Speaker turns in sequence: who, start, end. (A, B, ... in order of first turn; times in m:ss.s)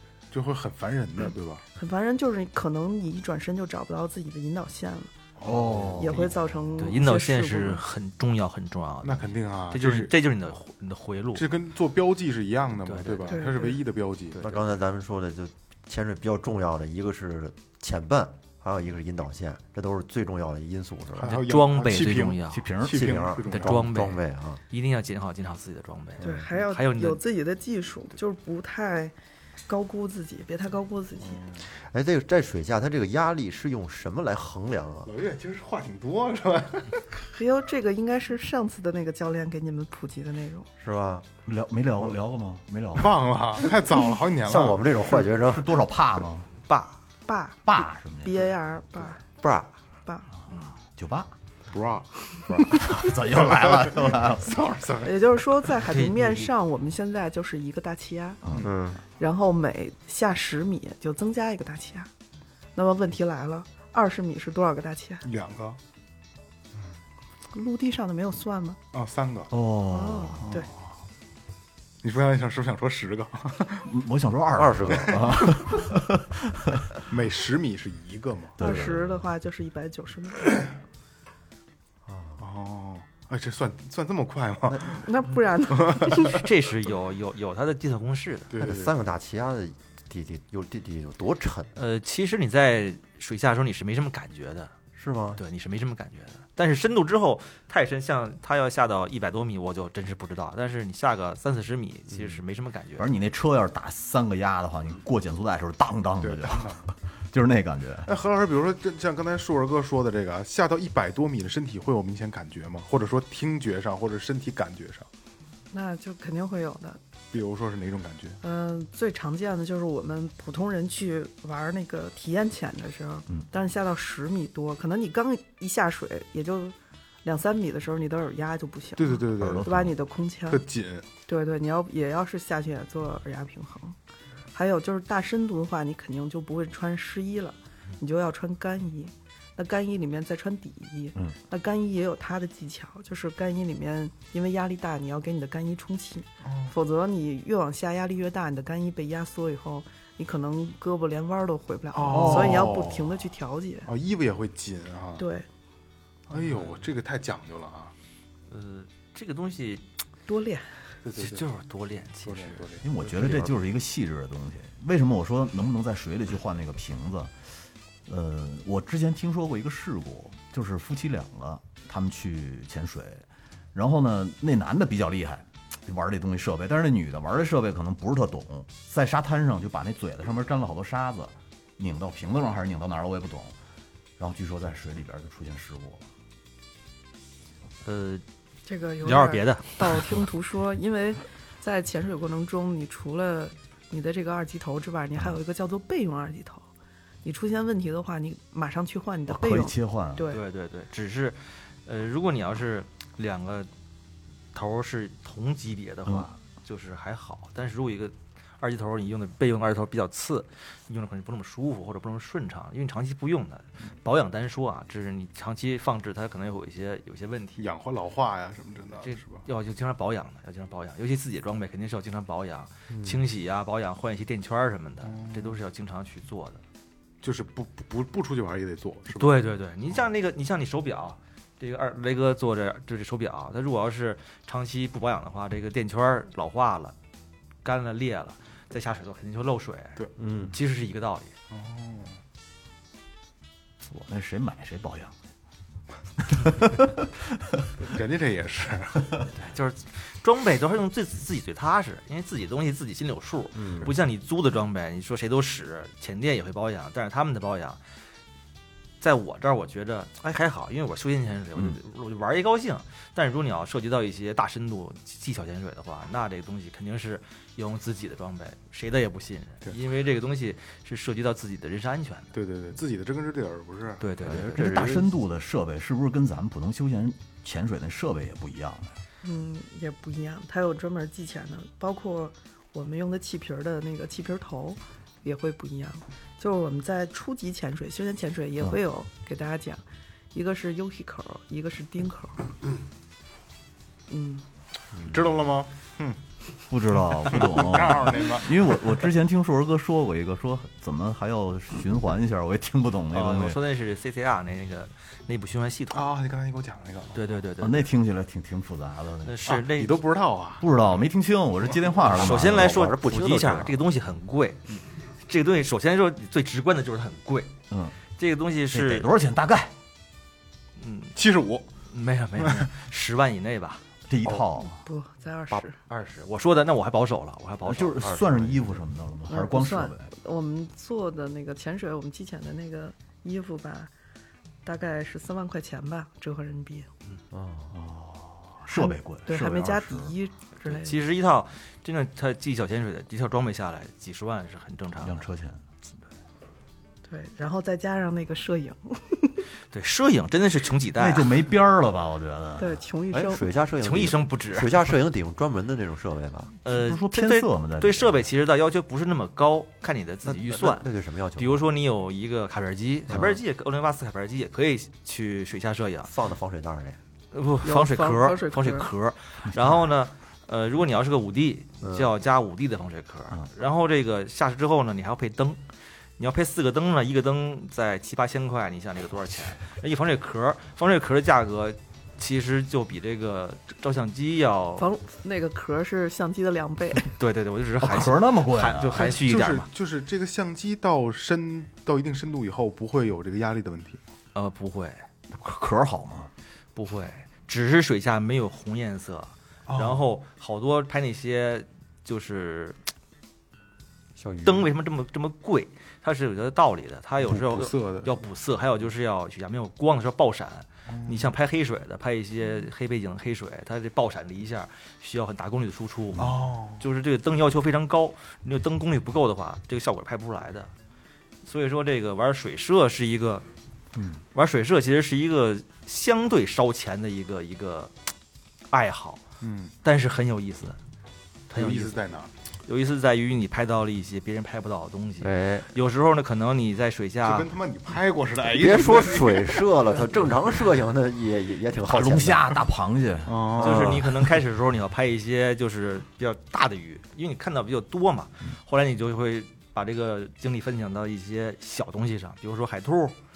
0:00.3-0:01.6 A
0:01.8-0:05.1 B
0:05.4-0:06.0 A
0:05.4-0:06.3 C
0:06.0-0:07.8 B
0:06.8-0:11.5 D
0:09.0-0:10.1 A
0:11.4-0:14.4 A
0:12.8-0:13.4 D
0:13.3-0:13.8 B
0:14.3-0:21.4 E
0:21.2-0:23.9 A
0:21.2-0:22.7 D
0:22.5-0:23.1 C
0:22.8-0:24.6 E
0:23.5-0:27.2 D
0:26.2-0:26.5 E
0:26.2-0:29.1 B
0:29.7-0:31.4 B
0:31.3-0:31.7 A
0:31.8-0:35.1 E
0:35.1-0:37.0 A
0:37.2-0:40.7 B
0:40.8-0:41.3 E
0:41.5-0:43.2 C
0:43.0-0:45.2 A
0:44.4-0:45.8 E
0:45.5-0:46.5 C
0:46.7-0:47.0 D
0:47.3-0:49.2 B
0:47.7-0:48.5 C
0:49.4-0:49.7 E
0:50.9-0:51.3 C
0:51.7-0:55.2 A
0:52.7-0:54.6 C
0:55.0-0:58.4 B
0:55.9-0:56.4 D
0:58.6-0:59.0 E
0:59.2-1:02.1 B
1:02.8-1:05.3 B
1:05.2-1:05.8 A
1:07.5-1:08.8 B
1:08.9-1:09.5 A
1:09.5-1:10.5 C
1:09.9-1:10.7 B
1:10.4-1:10.8 A
1:12.0-1:13.9 A
1:13.9-1:16.9 C
1:14.5-1:15.5 E
1:14.9-1:15.6 A
1:17.1-1:18.6 A
1:18.6-1:19.2 C
1:18.6-1:20.5 B
1:22.0-1:22.4 E
1:22.4-1:25.1 A
1:24.7-1:25.0 E
1:25.0-1:26.3 B
1:25.7-1:26.4 A
1:26.1-1:28.5 D
1:28.5-1:28.9 A
1:28.6-1:31.8 E
1:31.8-1:34.7 D
1:35.0-1:35.4 E
1:35.4-1:43.1 D
1:43.0-1:48.1 C
1:46.2-1:46.8 A
1:48.0-1:55.1 A
1:55.7-1:57.0 B
1:57.3-1:58.4 A
1:58.4-2:10.6 B
2:09.0-2:09.7 A
2:09.4-2:09.9 C
2:10.5-2:11.1 A
2:11.3-2:14.0 B
2:14.5-2:33.9 B
2:26.4-2:26.8 A
2:31.9-2:33.1 A
2:32.1-2:32.8 C
2:33.9-2:35.2 A
2:35.2-2:35.5 B
2:36.3-2:37.9 A
2:36.4-2:36.9 D
2:38.5-2:39.9 D
2:40.3-2:40.7 B
2:41.0-2:41.4 A
2:41.2-2:42.6 D
2:42.2-2:43.4 A
2:42.8-2:47.3 C
2:48.1-3:03.6 C
3:04.2-3:06.0 C
3:07.8-3:08.2 D
3:08.7-3:16.7 B
3:09.0-3:10.0 D
3:17.2-3:20.4 B
3:19.3-3:20.3 C
3:20.3-3:23.7 D
3:24.5-3:37.7 D
3:37.6-3:39.4 A
3:39.0-3:46.6 D
3:42.9-3:43.2 E
3:45.0-3:45.6 A
3:47.2-3:49.4 A
3:49.2-3:57.0 D
3:57.6-4:00.0 D
4:00.2-4:00.5 E
4:00.5-4:01.3 D
4:01.5-4:02.2 A
4:03.9-4:05.2 C
4:06.2-4:07.7 C
4:07.8-4:09.3 A
4:09.4-4:17.8 D
4:13.6-4:13.9 E
4:19.0-4:32.3 D
4:32.3-4:34.1 A
4:34.0-4:35.0 D
4:34.2-4:35.1 E
4:34.4-4:39.0 C
4:39.2-4:52.4 B
4:54.1-4:54.4 B
4:55.0-4:56.2 A
4:56.7-5:03.6 C
4:57.3-4:58.8 A
5:03.1-5:06.1 D
5:05.9-5:07.2 A
5:07.1-5:07.8 D
5:07.6-5:09.4 C
5:09.2-5:10.0 D
5:09.5-5:10.7 A
5:10.6-5:12.8 C
5:12.1-5:17.6 D
5:12.1-5:13.8 E
5:17.7-5:18.0 C
5:18.2-5:19.1 D
5:18.7-5:19.7 C
5:20.8-5:21.2 D
5:21.2-5:21.7 A
5:21.9-5:23.8 D
5:22.4-5:22.7 A
5:24.1-5:24.8 C
5:24.6-5:25.8 B
5:25.6-5:28.1 D
5:27.6-5:30.1 C
5:28.0-5:28.8 E
5:29.3-5:33.9 B
5:34.6-5:36.9 B
5:37.3-5:37.7 E
5:37.7-5:40.1 C
5:38.8-5:41.0 B
5:40.7-5:45.3 D
5:45.0-5:45.6 C
5:47.1-5:49.4 B
5:49.7-5:51.4 D
5:51.0-5:52.8 C
5:52.6-5:53.4 B
5:53.1-5:56.5 E
5:53.8-5:54.8 D
5:56.6-6:06.1 D
5:56.7-5:58.2 C
6:00.2-6:01.7 E
6:03.1-6:03.4 E
6:06.0-6:07.0 E
6:07.3-6:15.6 D
6:07.6-6:08.9 B
6:11.8-6:12.1 E
6:16.2-6:24.8 D
6:24.8-6:27.0 B
6:27.1-6:29.7 D
6:27.8-6:29.0 C
6:29.0-6:34.0 A
6:34.3-6:35.0 D
6:35.3-6:36.3 C
6:36.8-6:42.8 D
6:39.7-6:40.0 A
6:44.2-6:44.7 E
6:44.4-7:00.7 D
6:47.2-6:48.1 A
6:50.9-6:51.3 A
6:56.2-6:56.8 A
7:01.4-7:03.5 D
7:04.0-7:04.2 C
7:04.3-7:07.9 D
7:08.7-7:09.2 D
7:09.4-7:09.7 A
7:09.8-7:10.8 D
7:11.5-7:12.0 D
7:11.5-7:12.3 A
7:12.7-7:17.5 D
7:15.2-7:15.7 E
7:17.2-7:19.7 A
7:18.6-7:22.6 E
7:21.9-7:23.7 C
7:23.3-7:24.0 A
7:23.6-7:33.2 D
7:23.6-7:24.0 E